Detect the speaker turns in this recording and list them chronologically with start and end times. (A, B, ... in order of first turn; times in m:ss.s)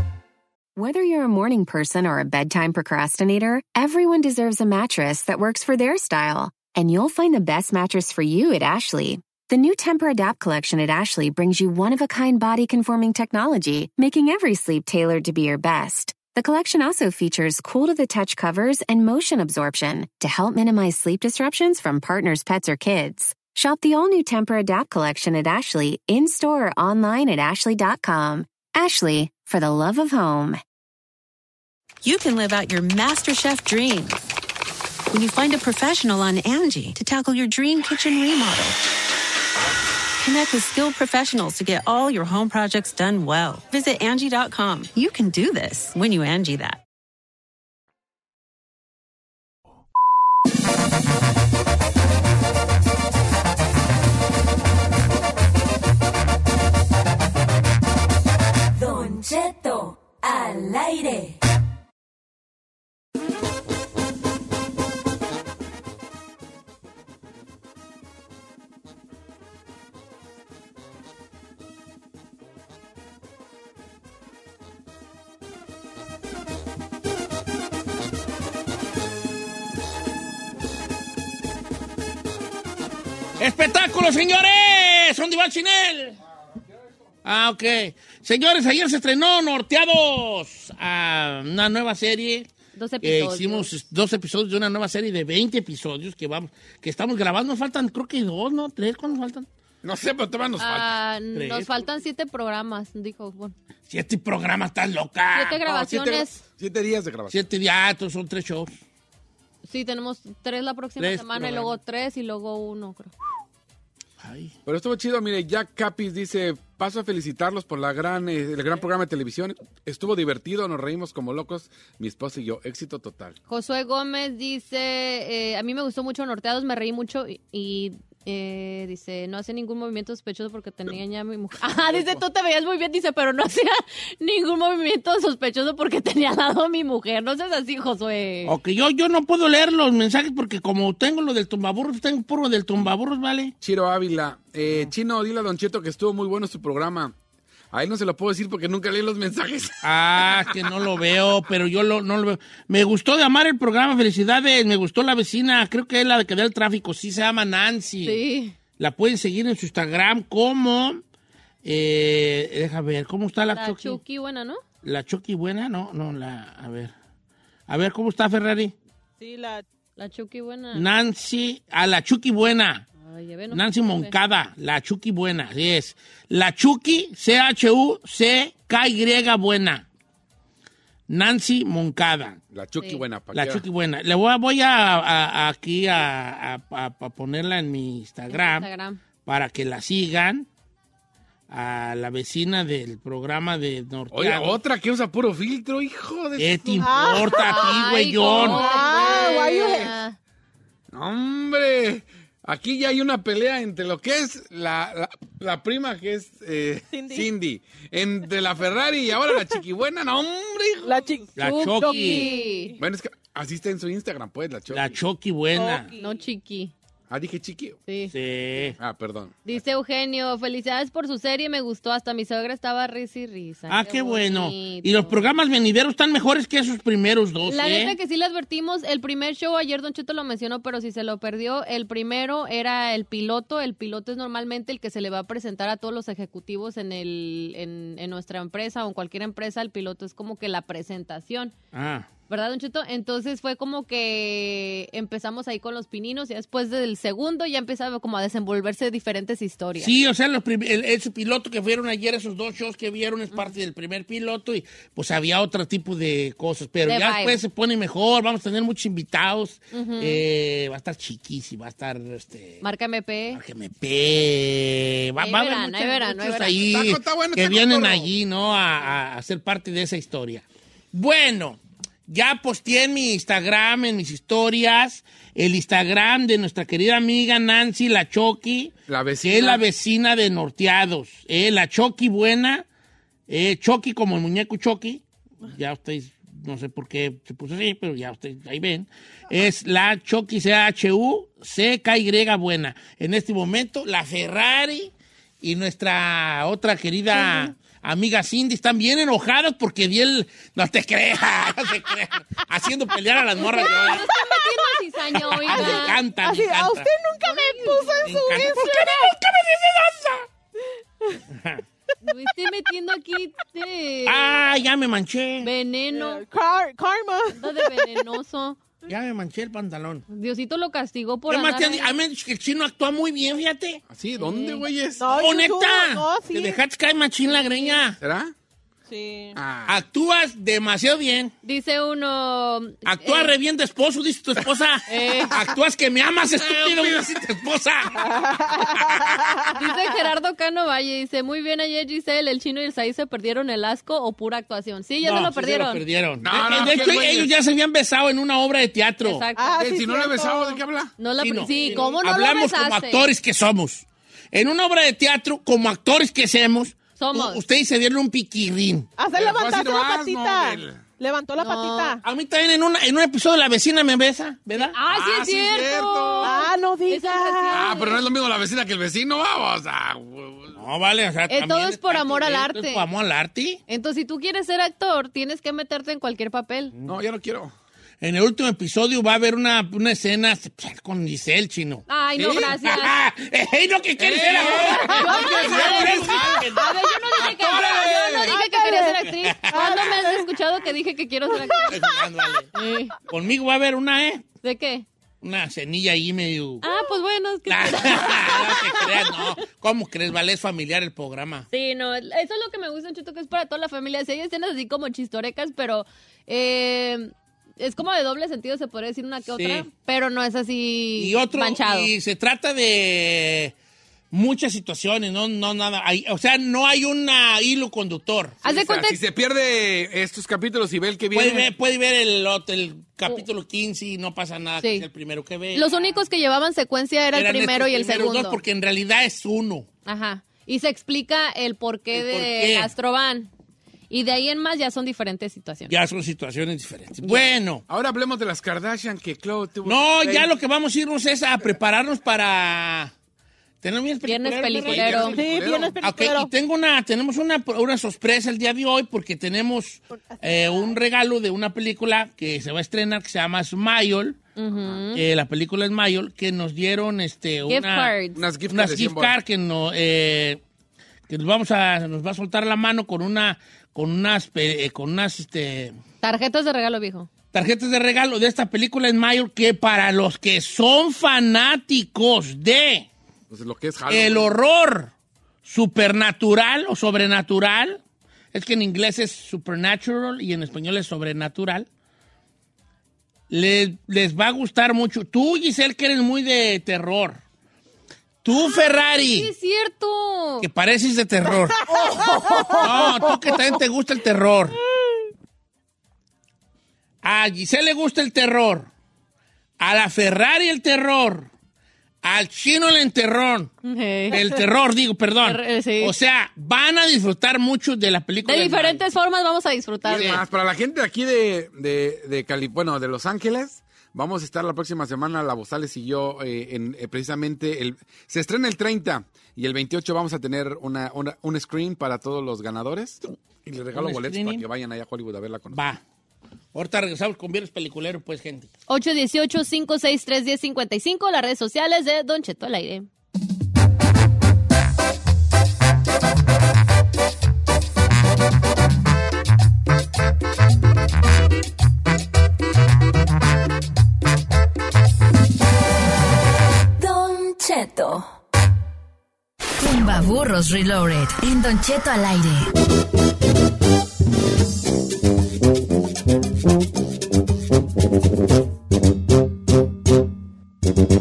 0:00.8-0:30.6 A
0:32.0-0:34.3 B
0:35.1-0:38.8 B
0:40.2-0:46.8 B
0:58.7-1:01.4 C
1:23.4-1:26.2 D
1:27.2-1:32.5 D
1:32.7-1:33.7 E
1:33.0-1:39.5 D
1:39.8-1:40.9 F
1:40.6-1:43.5 E
1:41.3-1:41.7 D
1:43.9-1:45.6 D
1:45.3-1:46.4 E
1:45.6-1:47.4 F
1:47.3-1:48.7 D
1:49.6-1:53.1 E
1:51.0-1:51.7 D
1:54.2-1:54.5 D
1:54.6-2:03.4 F
2:03.5-2:18.5 E
2:18.4-2:23.5 D
2:23.6-2:27.1 F
2:27.7-2:30.4 F
2:29.8-2:38.2 D
2:38.0-2:38.5 E
2:38.8-2:41.0 D
2:41.6-2:44.0 D
2:43.5-2:44.6 E
2:44.8-2:46.9 D
2:47.7-2:48.7 D
2:49.2-2:49.6 G
2:50.0-2:50.8 E
2:50.7-2:52.8 D
2:53.0-2:54.1 E
2:53.5-2:59.8 D
3:01.1-3:02.4 D
3:02.5-3:03.6 F
3:03.3-3:08.7 D
3:08.3-3:09.0 E
3:09.2-3:10.5 D
3:11.5-3:14.6 D
3:14.1-3:17.3 F
3:16.4-3:18.7 D
3:16.8-3:17.7 G
3:17.3-3:20.2 E
3:18.3-3:19.9 G
3:20.9-3:31.0 F
3:26.9-3:27.3 G
3:30.8-3:31.3 G
3:31.4-3:32.8 E
3:31.4-3:32.3 D
3:31.8-3:32.8 G
3:32.8-3:35.0 F
3:34.7-3:35.9 D
3:35.5-3:36.2 G
3:36.0-3:36.7 E
3:37.1-3:37.8 F
3:37.9-3:38.1 E
3:38.1-3:38.8 D
3:38.8-3:39.4 F
3:39.4-3:45.3 E
3:43.7-3:47.9 D
3:47.5-4:01.5 E
4:01.7-4:02.1 D
4:02.3-4:09.9 E
4:09.8-4:22.6 D
4:16.9-4:17.4 E
4:19.7-4:20.2 E
4:22.6-4:23.4 E
4:23.3-4:42.6 D
4:25.2-4:26.6 E
4:26.6-4:28.1 F
4:38.9-4:39.6 F
4:43.3-5:04.1 D
4:57.2-4:57.5 G
5:03.4-5:06.0 E
5:03.9-5:04.6 G
5:05.3-5:06.9 D
5:05.5-5:08.8 G
5:07.2-5:08.6 E
5:08.0-5:10.3 D
5:11.3-5:11.6 D
5:12.0-5:14.4 E
5:14.0-5:15.5 D
5:15.4-5:16.2 E
5:15.9-5:18.0 G
5:17.4-5:18.6 E
5:18.9-5:20.0 D
5:20.1-5:21.9 E
5:21.3-5:23.8 D
5:23.9-5:25.1 F
5:24.2-5:24.6 E
5:25.0-5:26.6 G
5:25.1-5:28.0 D
5:28.0-5:28.3 F
5:28.9-5:29.4 G
5:29.4-5:29.8 F
5:29.6-5:31.3 D
5:31.4-5:33.3 E
5:32.8-5:38.1 D
5:34.9-5:35.3 E
5:36.4-5:37.1 F
5:38.1-5:39.6 G
5:38.7-5:39.0 D
5:39.5-5:45.8 E
5:45.0-5:49.2 D
5:46.2-5:47.3 F
5:49.0-5:49.6 E
5:49.4-5:50.6 G
5:49.6-5:50.9 F
5:51.0-5:53.1 E
5:51.2-5:58.9 D
5:51.5-5:51.8 G
5:57.0-5:57.4 E
5:59.0-6:02.0 G
5:59.1-6:00.8 F
6:01.4-6:02.0 E
6:02.0-6:04.8 D
6:04.7-6:08.0 E
6:04.9-6:06.3 F
6:06.2-6:07.8 G
6:07.5-6:10.6 F
6:10.5-6:13.6 D
6:11.3-6:12.8 E
6:13.7-6:16.7 E
6:16.8-6:17.5 F
6:18.0-6:26.7 D
6:21.9-6:23.0 E
6:22.2-6:22.5 F
6:24.0-6:26.5 F
6:24.4-6:32.0 E
6:27.2-6:28.3 F
6:28.3-6:30.3 G
6:29.1-6:29.8 D
6:31.3-6:31.6 G
6:31.7-6:32.5 D
6:32.5-6:32.9 E
6:33.1-6:34.2 D
6:34.4-6:34.8 E
6:35.2-6:36.6 D
6:36.6-6:39.2 E
6:37.5-6:41.5 D
6:41.5-6:51.9 E
6:49.3-6:49.7 D
6:51.0-6:53.5 D
6:54.1-6:58.4 D
6:58.4-6:59.0 E
6:58.4-7:01.5 F
7:01.1-7:05.7 D
7:04.6-7:04.8 E
7:05.5-7:08.4 E
7:07.1-7:09.7 D
7:09.8-7:13.3 E
7:11.9-7:12.7 D
7:13.9-7:15.7 E
7:15.7-7:17.6 D
7:17.7-7:20.3 F
7:19.6-7:22.9 D
7:23.6-7:25.2 D
7:24.0-7:25.2 E
7:24.7-7:25.8 F
7:25.1-7:26.3 G
7:25.8-7:34.2 D
7:30.1-7:30.7 G
7:34.4-7:35.0 E
7:34.9-7:37.9 D
7:37.5-7:38.2 E
7:38.1-7:39.2 F
7:38.5-7:40.4 D
7:41.1-7:45.8 D
7:46.0-7:47.1 E
7:47.3-7:52.9 D
7:53.3-7:54.3 F
7:53.9-7:54.9 D
7:55.4-7:57.8 D
7:58.3-8:01.7 D
8:03.3-8:07.2 D
8:08.2-8:09.3 D
8:08.3-8:10.5 E
8:10.4-8:11.9 D
8:11.7-8:12.8 G
8:12.6-8:14.6 D
8:17.0-8:18.7 D
8:19.6-8:21.3 D
8:22.0-8:23.5 D
8:23.6-8:24.2 E
8:24.1-8:28.8 D
8:25.2-8:25.9 E
8:28.2-8:30.2 E
8:29.8-8:45.6 F
8:43.7-8:44.4 D
8:45.5-8:45.8 D
8:46.5-8:48.5 D
8:48.7-8:52.8 E
9:06.8-9:08.1 C
9:09.6-9:12.4 C